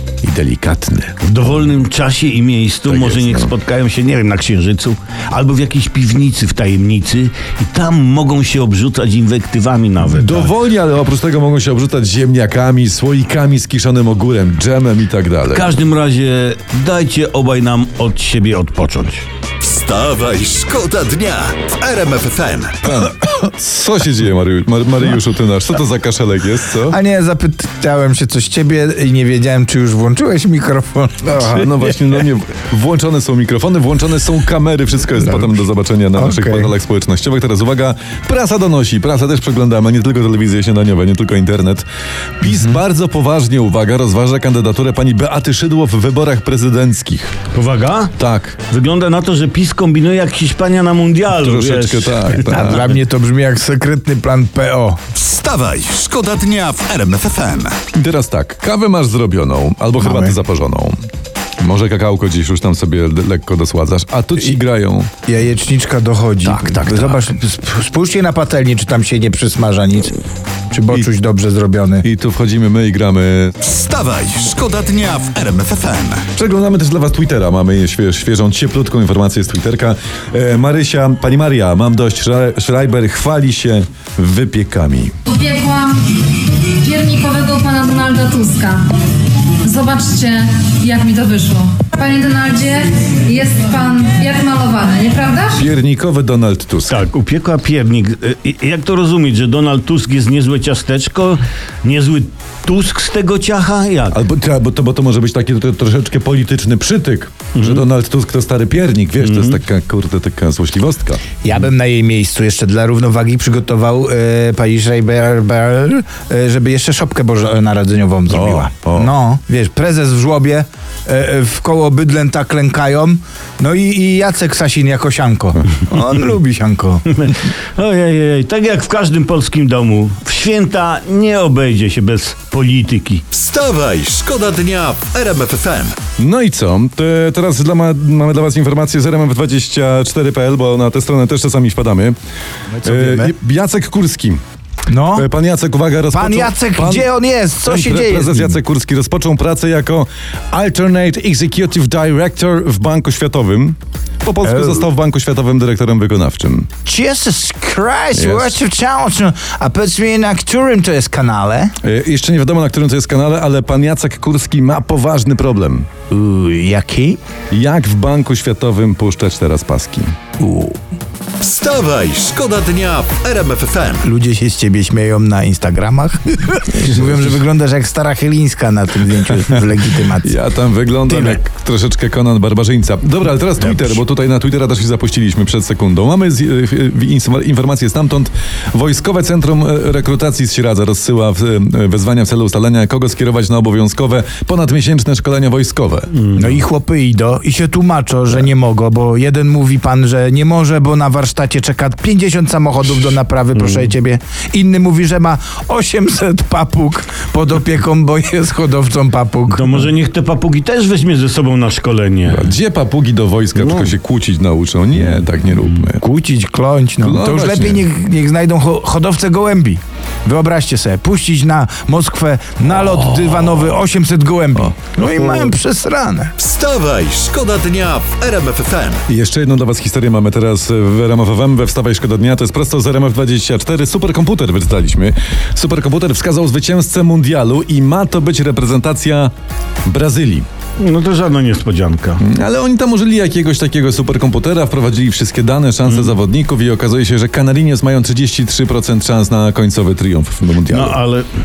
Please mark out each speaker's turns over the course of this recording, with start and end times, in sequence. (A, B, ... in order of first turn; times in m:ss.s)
0:00.2-0:01.2 A
0:01.2-0:10.5 B
0:02.9-0:03.5 A
0:10.0-0:15.7 A
0:15.5-0:19.2 B
0:19.6-0:22.9 C
0:22.8-0:27.0 A
0:26.9-0:31.9 D
0:31.2-0:41.8 A
0:36.2-0:36.7 D
0:42.4-0:47.3 A
0:47.5-0:48.1 B
0:48.2-0:48.6 A
0:48.7-0:53.0 B
0:51.3-0:52.9 A
0:52.4-0:55.0 D
0:55.1-0:57.8 C
0:57.9-1:01.0 A
1:00.0-1:00.4 D
1:01.6-1:05.1 A
1:05.2-1:10.2 D
1:06.4-1:07.0 B
1:10.7-1:12.0 D
1:12.0-1:13.6 A
1:13.6-1:16.3 C
1:16.3-1:25.2 A
1:25.2-1:28.8 E
1:29.6-1:35.6 E
1:35.6-1:37.0 A
1:36.9-1:44.2 B
1:44.1-1:51.2 A
1:47.5-1:47.8 B
1:49.2-1:49.6 B
1:51.4-2:07.0 D
1:58.3-1:59.1 A
2:07.1-2:13.2 B
2:13.3-2:16.0 C
2:16.2-2:22.2 A
2:22.7-2:23.3 D
2:22.8-2:24.4 A
2:24.9-2:25.3 D
2:25.2-2:27.1 A
2:26.1-2:28.6 D
2:27.6-2:36.7 A
2:34.4-2:34.8 D
2:36.8-2:41.7 D
2:38.1-2:38.6 A
2:41.8-2:45.9 A
2:46.1-2:47.2 D
2:47.5-2:50.1 A
2:50.4-2:50.8 D
2:51.4-2:54.0 C
2:54.0-3:00.3 D
2:56.8-2:57.3 B
3:00.2-3:16.1 A
3:01.1-3:01.4 B
3:03.6-3:04.0 D
3:16.1-3:16.6 B
3:16.3-3:29.9 D
3:23.5-3:23.9 B
3:29.5-3:32.5 B
3:32.3-3:36.0 A
3:33.6-3:33.9 B
3:36.0-3:46.3 D
3:37.0-3:37.8 A
3:46.4-3:49.0 C
3:49.1-3:59.3 A
3:59.8-4:00.5 A
4:00.8-4:02.2 B
4:02.2-4:11.0 A
4:05.9-4:06.2 B
4:10.6-4:11.3 B